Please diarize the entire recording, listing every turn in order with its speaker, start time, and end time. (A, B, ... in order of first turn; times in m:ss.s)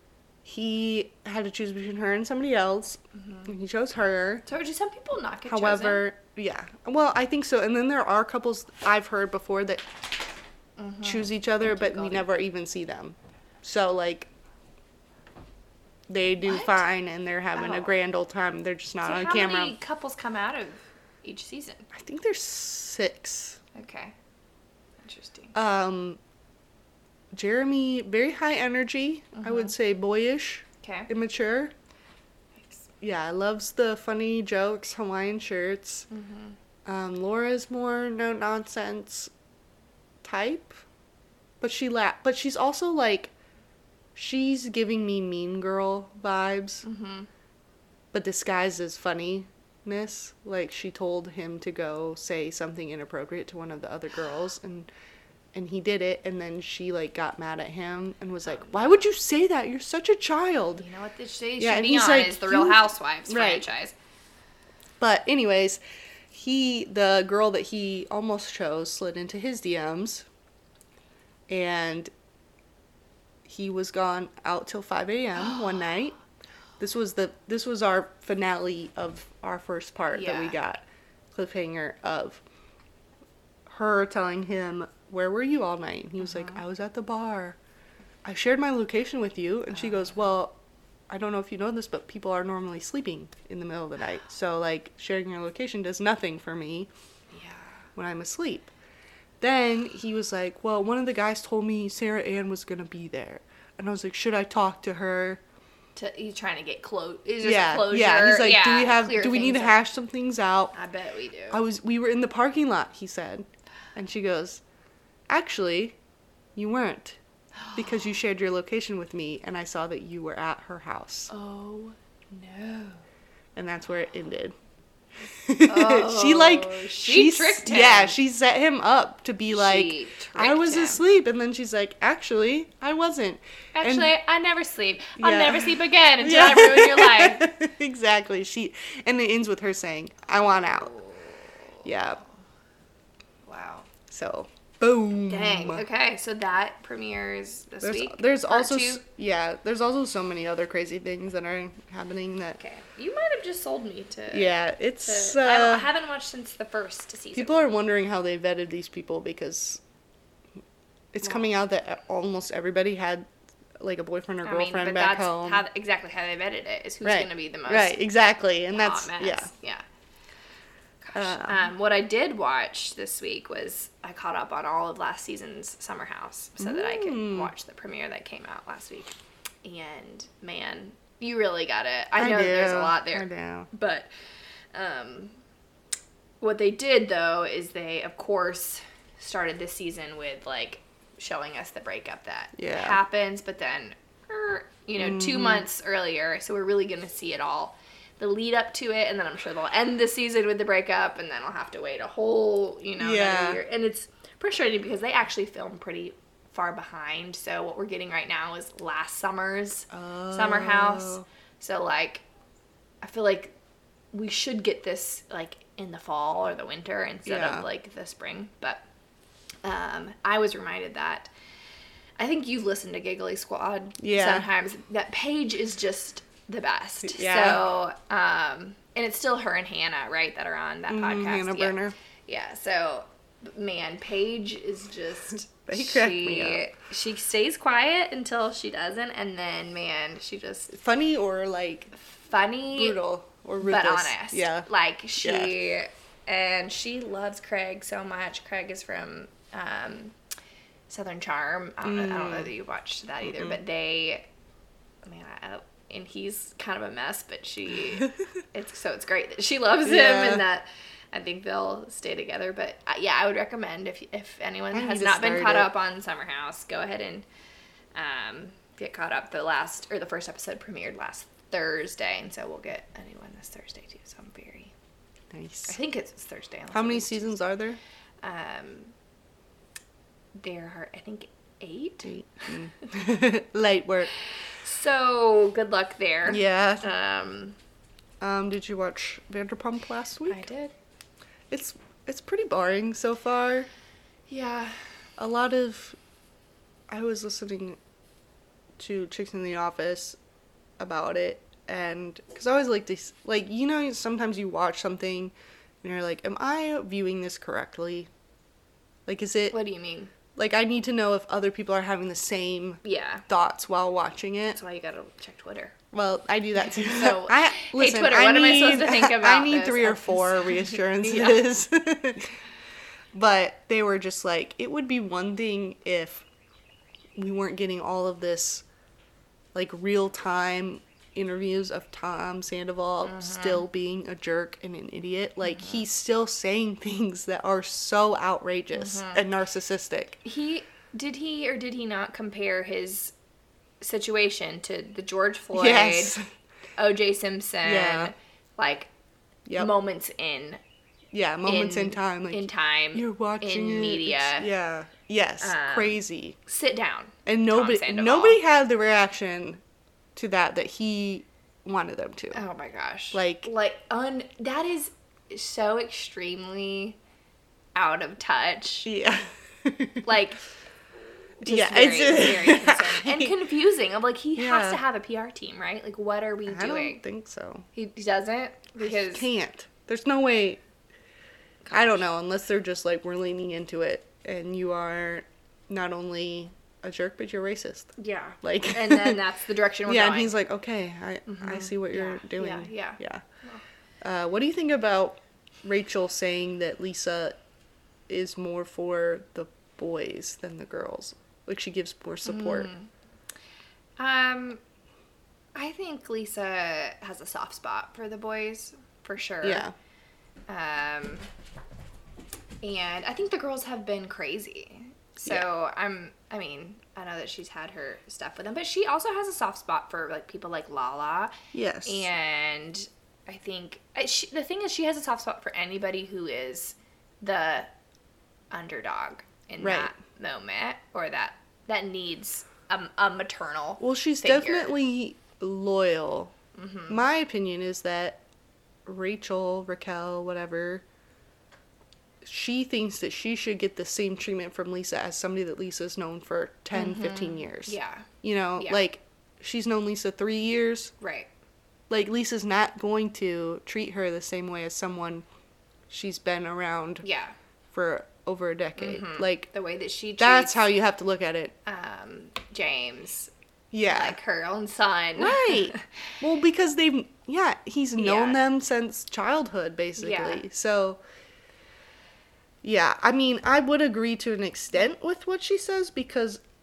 0:00.4-0:04.4 A
0:03.2-0:03.5 B
0:04.4-0:06.0 B
0:05.5-0:09.8 A
0:10.8-0:12.3 B
0:11.0-0:14.3 A
0:16.1-0:19.8 A
0:16.4-0:16.8 B
0:17.6-0:17.9 B
0:19.0-0:21.9 B
0:21.9-0:23.6 A
0:23.7-0:24.1 B
0:25.0-0:25.6 B
0:25.5-0:26.2 A
0:27.3-0:31.7 A
0:29.3-0:29.7 B
0:30.8-0:31.1 B
0:32.6-0:32.9 B
0:33.0-0:36.0 A
0:36.1-0:36.6 B
0:36.9-0:39.3 A
0:40.2-0:40.8 A
0:41.6-0:43.3 A
0:44.1-0:46.8 A
0:46.8-0:47.3 B
0:48.1-0:54.9 A
0:55.5-1:00.9 A
0:58.5-0:59.0 B
1:00.8-1:03.9 B
1:01.6-1:03.7 A
1:05.0-1:10.3 A
1:11.5-1:12.1 A
1:13.4-1:16.2 A
1:15.4-1:15.8 B
1:16.8-1:22.4 A
1:20.1-1:20.6 B
1:23.7-1:27.6 A
1:26.3-1:26.6 B
1:28.2-1:30.6 A
1:29.7-1:30.1 B
1:31.1-1:36.9 A
1:37.3-1:37.8 B
1:38.0-1:38.7 A
1:39.4-1:45.4 A
1:46.0-1:49.8 B
1:47.4-1:50.7 A
1:50.7-1:51.6 B
1:51.5-1:54.6 A
1:55.3-1:56.0 A
1:56.6-1:57.2 A
1:57.7-2:01.3 A
2:01.3-2:03.0 B
2:03.6-2:04.5 A
2:05.3-2:14.1 A
2:05.6-2:08.2 B
2:09.5-2:11.0 B
2:13.7-2:17.5 B
2:15.2-2:20.9 A
2:20.5-2:21.9 B
2:21.8-2:22.2 A
2:23.4-2:23.9 B
2:24.1-2:25.8 A
2:25.3-2:29.0 B
2:27.8-2:32.6 A
2:32.6-2:37.7 B
2:34.3-2:35.9 A
2:37.3-2:39.8 A
2:41.1-2:43.3 A
2:43.8-2:45.6 A
2:44.4-2:48.0 B
2:47.0-2:49.5 A
2:48.7-2:49.8 B
2:51.0-3:04.1 B
2:51.1-2:51.7 A
2:56.6-2:57.5 A
3:02.2-3:03.7 A
3:04.7-3:05.4 B
3:06.4-3:32.2 B
3:12.6-3:13.0 A
3:15.0-3:15.6 A
3:23.0-3:23.6 A
3:29.9-3:31.3 A
3:33.0-3:33.5 B
3:34.1-3:38.8 B
3:37.3-3:37.6 A
3:39.6-3:41.3 B
3:42.2-4:00.7 B
3:44.0-3:44.5 A
3:47.0-3:47.7 A
3:50.9-3:51.9 A
3:55.7-3:56.6 A
4:00.7-4:01.9 A
4:02.0-4:03.0 B
4:02.7-4:04.7 A
4:03.6-4:10.1 B
4:05.2-4:05.5 A
4:10.9-4:14.3 B
4:11.8-4:12.5 A
4:13.2-4:13.6 A
4:15.0-4:27.3 B
4:19.8-4:20.4 A
4:24.7-4:25.7 A
4:27.9-4:34.7 B
4:35.3-4:35.8 A
4:35.7-4:37.4 B
4:36.7-4:37.8 A
4:38.2-4:38.9 B
4:40.3-4:42.1 B
4:42.0-4:44.1 A
4:44.6-4:47.6 B
4:46.3-4:46.8 A
4:48.2-4:50.4 A
4:50.3-4:50.7 B
4:51.5-4:53.7 A
4:54.3-4:54.8 B
4:55.2-4:56.0 A
4:56.9-4:57.8 A
4:58.8-5:00.2 A
5:00.8-5:08.1 A
5:09.0-5:09.6 A
5:09.5-5:10.1 B
5:10.4-5:14.6 A
5:12.8-5:13.2 B
5:14.6-5:15.7 B
5:15.9-5:22.3 A
5:16.6-5:21.4 B
5:23.1-5:26.2 A
5:27.2-5:28.6 A
5:29.5-5:40.2 A
5:33.0-5:33.6 B
5:38.7-5:39.2 B
5:40.2-5:43.1 B
5:43.8-5:46.2 B
5:45.5-5:46.2 A
5:46.8-5:48.9 B
5:47.6-5:48.1 A
5:49.5-5:49.7 A
5:49.6-5:50.6 B
5:51.1-5:56.4 A
5:51.4-5:54.5 B
5:55.4-5:58.4 B
5:57.3-5:59.6 A
6:00.1-6:02.4 A
6:02.3-6:07.0 B
6:03.1-6:03.5 A
6:07.7-6:08.9 B
6:08.8-6:10.1 A
6:10.0-6:10.4 B
6:11.4-6:13.4 A
6:11.4-6:17.0 B
6:14.4-6:14.8 A
6:16.5-6:17.6 A
6:17.7-6:19.3 B
6:18.8-6:20.6 A
6:21.6-6:21.9 B
6:21.7-6:29.2 A
6:28.0-6:30.3 B
6:29.9-6:33.2 A
6:31.3-6:33.6 B
6:34.0-6:37.4 A
6:38.1-6:42.7 A
6:42.2-6:42.9 B
6:44.0-6:44.6 B
6:45.6-6:49.6 B
6:49.4-6:49.7 A
6:50.5-6:51.3 B
6:52.6-7:07.7 B
7:01.5-7:02.1 A
7:08.5-7:14.8 B
7:09.6-7:09.9 A
7:13.8-7:16.3 A
7:16.6-7:17.0 B
7:16.9-7:18.2 A
7:18.9-7:20.8 A
7:22.2-7:30.9 A
7:26.7-7:28.8 B
7:31.0-7:31.3 B
7:31.9-7:35.2 A
7:35.9-7:37.0 A
7:37.0-7:37.3 B
7:37.7-7:39.5 A
7:38.8-7:40.7 B
7:40.2-7:41.5 A
7:41.6-7:43.3 B
7:43.7-7:44.2 A
7:43.8-7:45.8 B
7:45.2-7:51.0 A
7:48.0-7:48.4 B
7:50.0-7:50.4 B
7:52.6-7:56.4 A